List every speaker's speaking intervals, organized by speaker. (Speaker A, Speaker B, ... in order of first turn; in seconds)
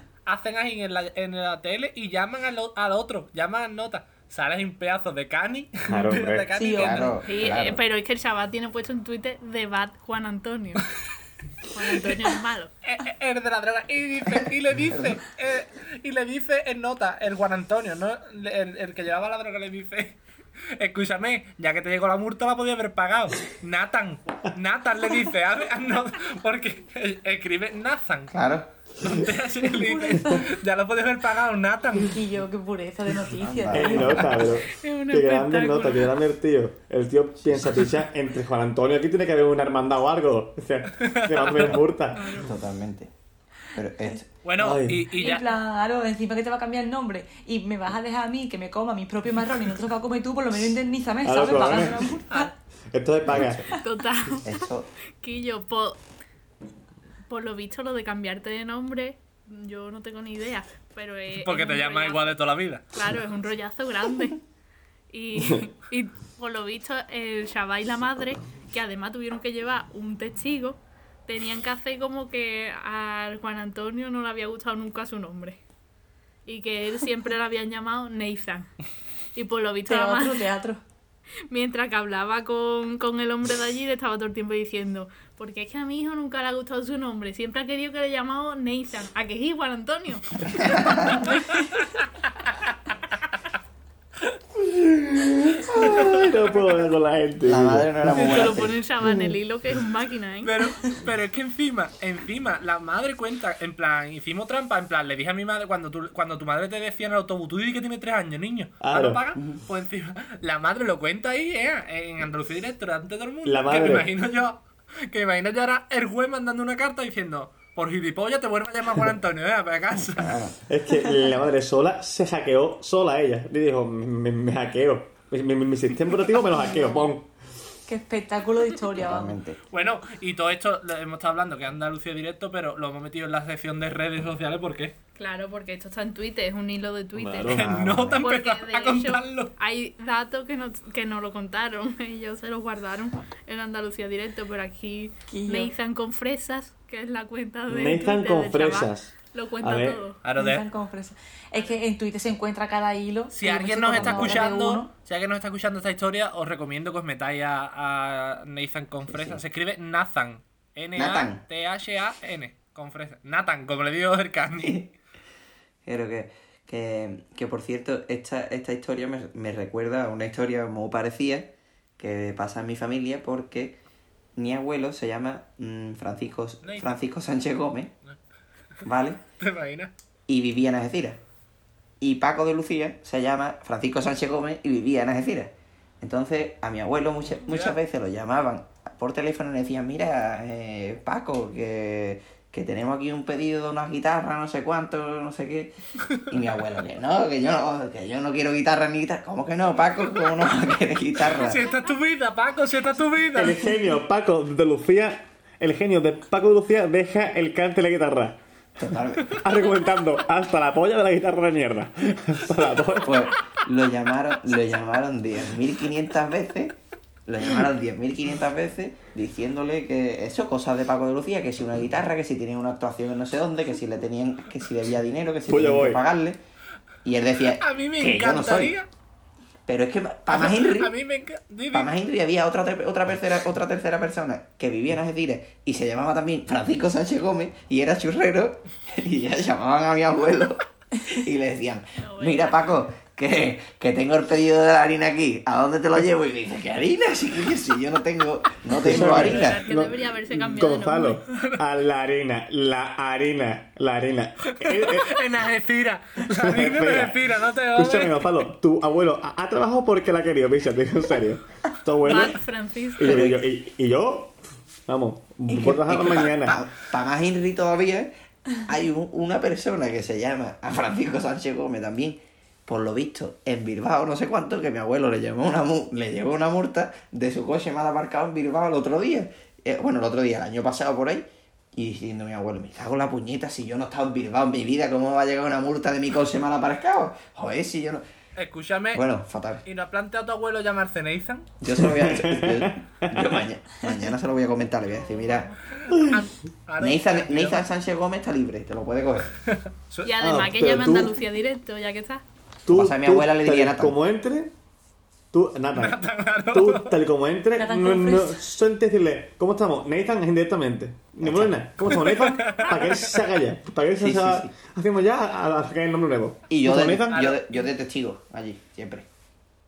Speaker A: 0.3-7.2, 12.8-20.2, 20.8-28.4, 29.0-32.1, 41.0-41.8, 44.4-45.5, 61.3-62.9, 100.4-120.4, 129.7-134.9, 137.5-139.5, 150.2-150.7, 153.3-164.9, 176.6-176.9, 179.4-179.9, 187.4-187.8, 201.2-203.6, 227.6-228.9, 230.3-231.9, 251.3-251.6, 254.5-258.3, 288.4-289.0, 289.7-291.5, 295.8-297.6, 299.5-300.1, 305.8-307.0, 312.1-313.2, 317.1-317.4
Speaker B: 5.9-6.5, 33.7-42.5, 44.6-45.1, 51.2-52.2, 52.9-53.7, 94.6-99.3, 108.8-109.3, 113.4-114.1, 120.7-127.3, 137.2-137.7, 147.7-150.0, 203.3-208.4, 209.3-213.2, 225.5-226.0, 248.8-255.2, 256.3-262.4, 263.0-264.4, 264.9-266.6, 291.7-293.4, 295.9-296.2, 300.2-301.2, 302.7-304.5, 305.3-317.2
Speaker C: 6.5-7.1, 29.7-30.5, 32.0-34.3, 45.1-52.5, 79.9-80.8, 126.5-127.1, 127.9-129.4, 145.3-145.7, 150.3-154.9, 307.6-308.4
Speaker D: 6.8-7.8, 14.9-15.2, 28.3-28.7, 33.4-34.5, 42.4-43.1, 43.8-44.3, 53.3-53.7, 54.4-54.9, 90.5-91.2, 97.5-98.8, 109.3-109.6, 120.1-120.6, 129.0-129.6, 137.5-138.2, 154.0-154.4, 159.1-159.4, 161.0-161.4, 164.6-164.9, 165.9-173.8, 174.4-177.9, 178.8-179.2, 180.3-181.2, 182.0-201.6, 208.8-209.4, 213.0-226.4, 227.1-228.7, 229.7-230.9, 231.7-249.6, 263.0-263.4, 265.5-288.0, 288.9-289.6, 291.6-295.5, 296.8-299.3, 302.7-303.9, 311.2-311.5, 314.0-314.5, 316.5-319.1
Speaker E: 7.3-10.8, 11.7-12.7, 34.6-36.2, 42.1-42.5, 53.8-54.7, 55.2-56.0, 57.3-62.4, 62.9-64.4, 65.1-75.6, 76.5-78.7, 79.3-80.5, 81.5-91.5, 98.1-100.6, 135.2-137.6, 138.2-150.2, 242.0-242.7, 249.0-251.2, 262.0-263.3, 295.0-295.6, 300.1-302.2